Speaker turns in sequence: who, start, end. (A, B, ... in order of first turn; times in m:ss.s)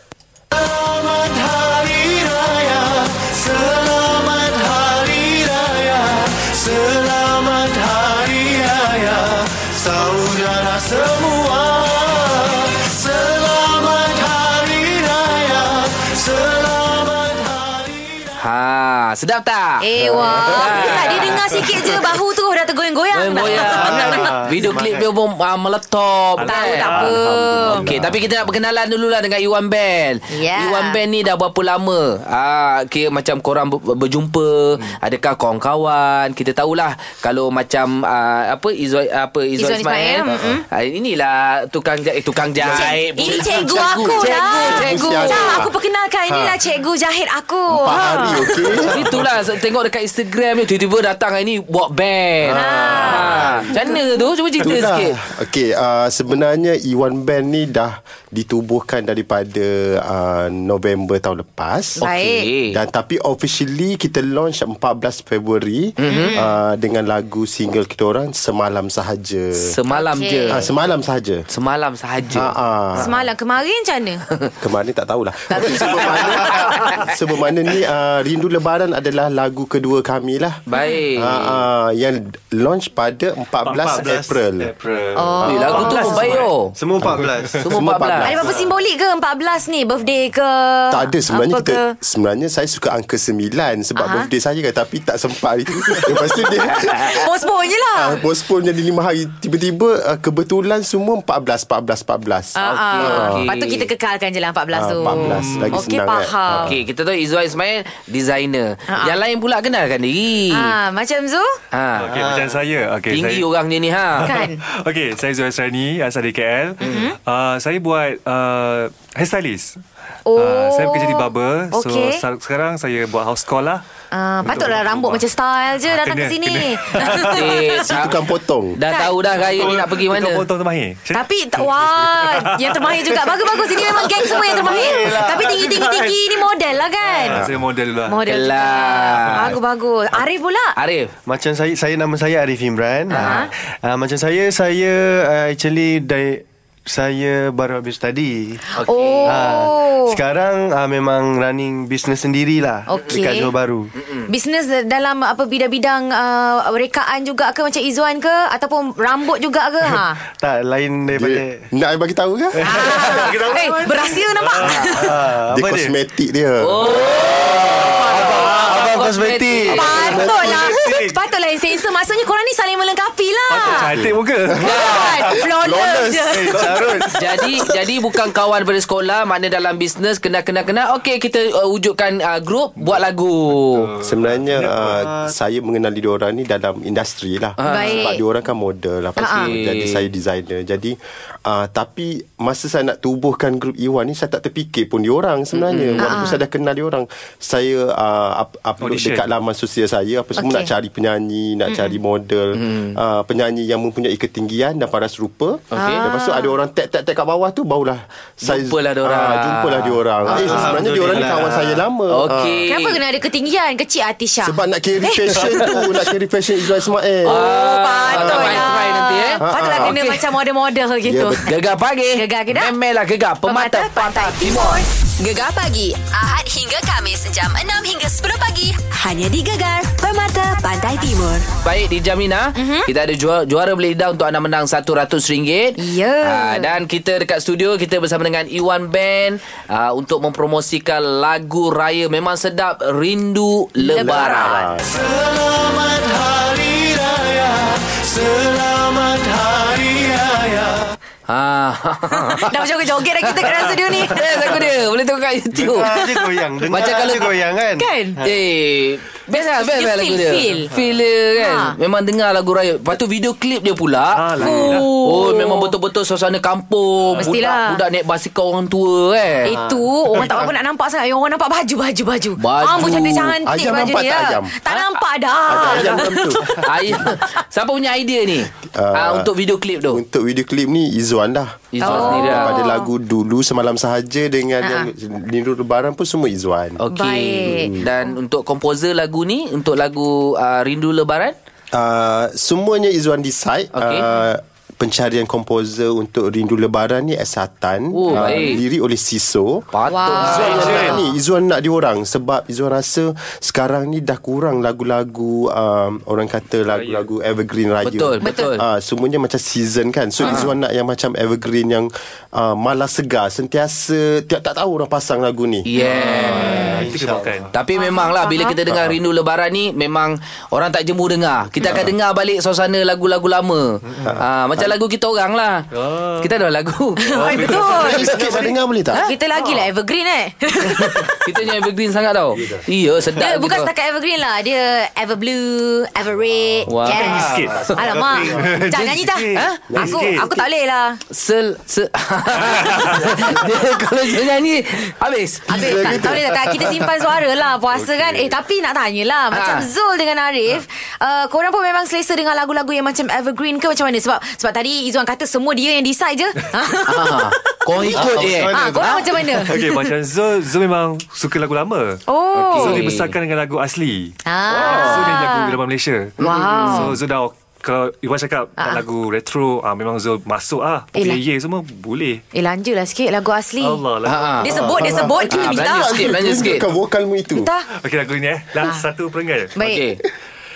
0:00.5-0:18.3 A
0:18.4-0:19.8 B
0:19.8-0:24.3 C
0:20.0-0:20.6 D
0:20.4-0:21.4 B
0:23.1-0:26.9 B
0:23.5-0:25.1 A
0:26.4-0:27.2 E
0:26.4-0:27.8 C
0:26.8-0:28.3 D
0:27.9-0:45.6 B
0:30.3-0:31.0 C
0:39.6-0:40.6 C
0:40.3-0:40.6 D
0:42.6-0:42.9 A
0:42.8-0:48.5 C
0:43.1-0:45.7 D
0:46.3-0:46.6 D
0:47.7-0:49.0 D
0:48.9-0:55.1 B
0:52.5-0:53.7 D
0:52.5-0:53.8 C
0:54.6-1:02.0 D
1:02.0-1:02.5 C
1:02.0-1:02.8 B
1:02.7-1:09.7 D
1:06.0-1:06.3 B
1:06.1-1:06.6 C
1:09.6-1:10.7 B
1:09.9-1:10.6 C
1:10.5-1:11.4 D
1:11.5-1:12.5 B
1:12.3-1:13.2 D
1:13.0-1:14.2 C
1:14.6-1:20.6 D
1:15.5-1:17.0 C
1:20.7-1:21.6 B
1:20.7-1:21.0 C
1:21.2-1:24.7 D
1:23.7-1:24.1 E
1:23.7-1:27.7 A
1:24.9-1:26.5 E
1:25.2-1:26.3 C
1:25.5-1:26.7 B
1:25.5-1:25.8 D
1:27.0-1:28.6 D
1:27.6-1:28.3 B
1:28.2-1:31.9 C
1:30.9-1:37.2 D
1:34.0-1:34.3 C
1:36.9-1:38.2 C
1:38.0-1:43.5 D
1:42.6-1:46.7 C
1:42.6-1:43.9 B
1:44.7-1:46.8 D
1:45.1-1:45.8 E
1:46.7-1:50.7 B
1:48.9-1:49.2 C
1:50.5-1:51.5 C
1:51.7-1:52.1 B
1:52.0-1:53.5 E
1:52.1-1:52.6 A
1:53.1-1:54.3 B
1:54.2-1:59.8 E
1:54.2-1:54.6 C
1:56.8-1:57.2 C
2:00.3-2:02.2 C
2:00.4-2:03.8 E
2:04.1-2:07.8 C
2:04.4-2:05.2 E
2:05.9-2:07.5 E
2:07.4-2:08.2 B
2:07.9-2:08.8 D
2:08.8-2:10.5 B
2:08.9-2:09.1 C
2:09.4-2:16.3 E
2:11.1-2:17.4 C
2:14.2-2:15.9 A
2:17.0-2:18.2 E
2:18.1-2:20.7 C
2:18.3-2:19.6 B
2:20.8-2:21.1 B
2:21.3-2:28.6 A
2:23.1-2:23.5 C
2:28.8-2:29.5 B
2:28.8-2:30.2 C
2:29.2-2:33.9 A
2:32.9-2:33.5 C
2:34.0-2:34.3 B
2:34.3-2:40.2 C
2:40.4-2:41.6 A
2:41.1-2:42.6 D
2:42.6-2:43.6 A
2:42.7-2:45.1 C
2:43.0-2:44.9 E
2:44.6-2:45.9 A
2:45.5-2:46.9 D
2:46.6-2:50.0 B
2:47.2-2:51.2 A
2:47.9-2:48.5 C
2:49.7-2:53.9 C
2:53.5-2:55.3 E
2:53.9-2:54.2 D
2:54.6-2:57.1 A
2:54.6-2:55.0 B
2:54.7-2:56.6 C
2:56.5-2:57.1 E
2:57.2-3:03.9 B
3:03.7-3:04.9 E
3:04.0-3:32.6 D
3:05.0-3:05.3 A
3:07.6-3:08.1 B
3:07.6-3:08.2 C
3:09.2-3:09.5 C
3:09.4-3:10.1 B
3:15.5-3:16.2 B
3:16.0-3:16.4 C
3:18.8-3:19.3 E
3:20.4-3:20.7 C
3:21.7-3:22.0 C
3:22.6-3:23.0 B
3:25.7-3:26.0 B
3:25.8-3:26.5 C
3:28.4-3:30.0 B
3:30.3-3:31.8 A
3:30.3-3:30.7 C
3:32.1-3:33.0 B
3:32.7-3:35.8 C
3:34.4-3:37.4 D
3:37.2-3:41.4 C
3:37.3-3:40.2 B
3:38.2-3:38.6 D
3:39.4-3:40.0 D
3:41.0-3:41.5 D
3:41.5-3:44.8 B
3:42.1-3:42.7 C
3:43.5-3:44.9 C
3:45.2-3:51.5 F
3:51.6-4:04.6 B
3:52.6-3:52.9 C
3:55.8-3:56.8 C
4:03.8-4:04.6 C
4:04.0-4:05.0 D
4:04.9-4:10.9 A
4:11.3-4:12.7 B
4:12.1-4:14.3 C
4:13.2-4:15.9 B
4:14.2-4:14.6 A
4:15.5-4:18.4 A
4:16.0-4:16.2 C
4:16.7-4:17.3 B
4:17.8-4:18.2 C
4:18.2-4:29.5 B
4:19.6-4:20.7 C
4:21.4-4:21.8 C
4:24.1-4:25.0 E
4:24.4-4:25.7 C
4:27.2-4:27.8 C
4:29.4-4:36.4 C
4:29.5-4:30.5 A
4:32.4-4:33.4 B
4:33.4-4:34.6 D
4:35.5-4:36.6 D
4:35.8-4:36.6 E
4:36.6-4:40.0 B
4:38.7-4:39.3 D
4:39.9-4:46.8 D
4:41.7-4:42.6 B
4:41.8-4:42.9 C
4:44.6-4:44.9 C
4:46.8-4:51.4 B
4:46.9-4:47.8 C
4:47.4-4:47.9 D
4:51.7-4:59.7 D
4:53.8-4:54.1 B
4:57.9-4:58.6 B
4:58.3-4:58.6 C
4:59.7-5:01.0 B
4:59.9-5:01.0 C
5:00.2-5:15.7 D
5:00.5-5:01.0 E
5:06.7-5:07.0 E
5:07.8-5:08.6 B
5:08.2-5:08.6 C
5:10.2-5:10.5 B
5:15.7-5:16.8 B
5:15.8-5:17.5 A
5:15.8-5:17.5 E
5:16.4-5:16.8 C
5:17.5-5:25.7 B
5:17.8-5:18.6 C
5:18.7-5:19.0 D
5:24.0-5:24.7 D
5:25.7-5:26.3 E
5:26.2-5:27.4 B
5:27.1-5:28.1 C
5:27.1-5:28.5 E
5:27.5-5:29.0 D
5:29.0-5:31.3 C
5:29.4-5:29.7 E
5:30.7-5:33.7 B
5:33.2-5:41.0 C
5:36.7-5:37.7 B
5:36.9-5:40.4 E
5:37.1-5:38.1 A
5:37.3-5:38.5 D
5:39.4-5:39.6 B
5:39.7-5:40.2 D
5:41.1-5:46.0 B
5:42.4-5:43.3 E
5:45.5-5:46.6 D
5:45.5-5:58.0 C
5:47.8-5:48.3 E
5:49.3-5:49.7 B
5:56.9-5:58.5 B
5:57.8-5:59.3 A
5:58.5-5:59.9 C
5:59.4-6:12.2 E
6:02.1-6:02.9 C
6:02.6-6:03.1 B
6:04.3-6:05.6 C
6:04.6-6:05.0 B
6:06.2-6:06.9 C
6:06.2-6:07.0 B
6:11.0-6:11.2 C
6:12.3-6:13.8 C
6:13.6-6:14.9 E
6:14.0-6:14.5 B
6:14.4-6:16.2 C
6:14.6-6:17.5 D
6:15.3-6:16.6 B
6:17.3-6:17.7 C
6:17.8-6:19.6 E
6:19.6-6:19.8 C
6:19.6-6:20.0 B